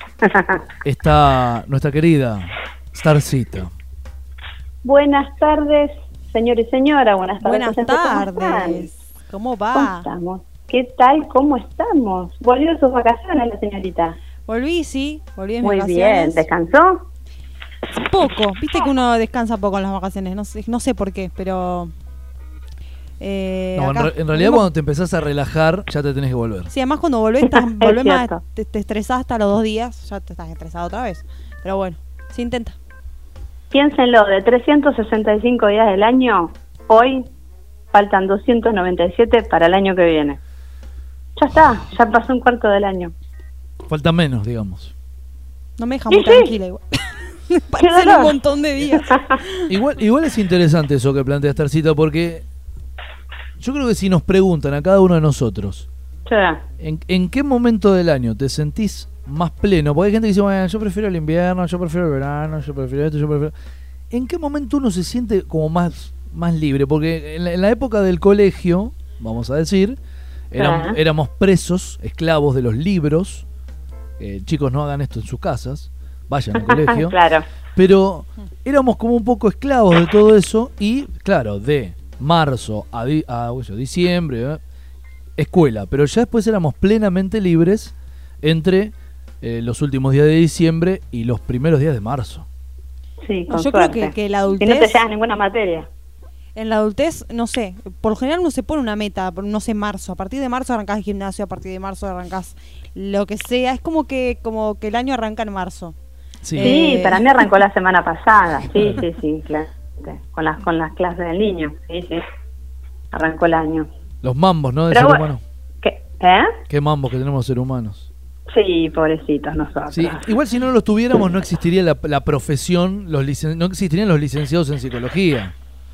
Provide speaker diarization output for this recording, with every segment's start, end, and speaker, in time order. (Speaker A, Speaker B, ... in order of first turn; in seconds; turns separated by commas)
Speaker A: 0.2-0.6, Speaker B: 0.8-3.7, Speaker A: 4.8-8.9, Speaker C: 7.4-10.1, Speaker A: 9.7-14.2, Speaker C: 14.5-16.4, Speaker A: 15.6-17.1, Speaker C: 17.9-21.9, Speaker C: 23.2-24.7, Speaker B: 23.8-26.7, Speaker C: 26.7-32.8, Speaker A: 27.4-28.4, Speaker A: 33.7-37.3, Speaker A: 37.9-40.4, Speaker A: 41.4-43.1, Speaker B: 43.9-44.9, Speaker C: 45.8-49.7, Speaker A: 46.1-46.5, Speaker A: 47.8-48.3, Speaker A: 49.1-49.4, Speaker B: 49.7-52.4, Speaker B: 53.6-55.9, Speaker A: 56.3-56.6, Speaker B: 56.8-63.5, Speaker B: 64.1-70.0, Speaker B: 70.5-73.4, Speaker A: 70.6-71.0, Speaker B: 74.2-77.2, Speaker A: 76.6-77.4, Speaker B: 77.7-84.6, Speaker B: 85.4-92.5, Speaker A: 93.2-95.9, Speaker C: 93.5-95.0, Speaker C: 96.5-105.9, Speaker B: 106.4-106.8, Speaker C: 106.5-107.4, Speaker A: 106.6-112.2, Speaker B: 108.7-109.0, Speaker A: 113.1-113.9, Speaker B: 114.2-115.4, Speaker A: 114.9-115.2, Speaker A: 115.8-116.5, Speaker B: 116.7-118.1, Speaker A: 118.5-120.3, Speaker B: 119.9-125.5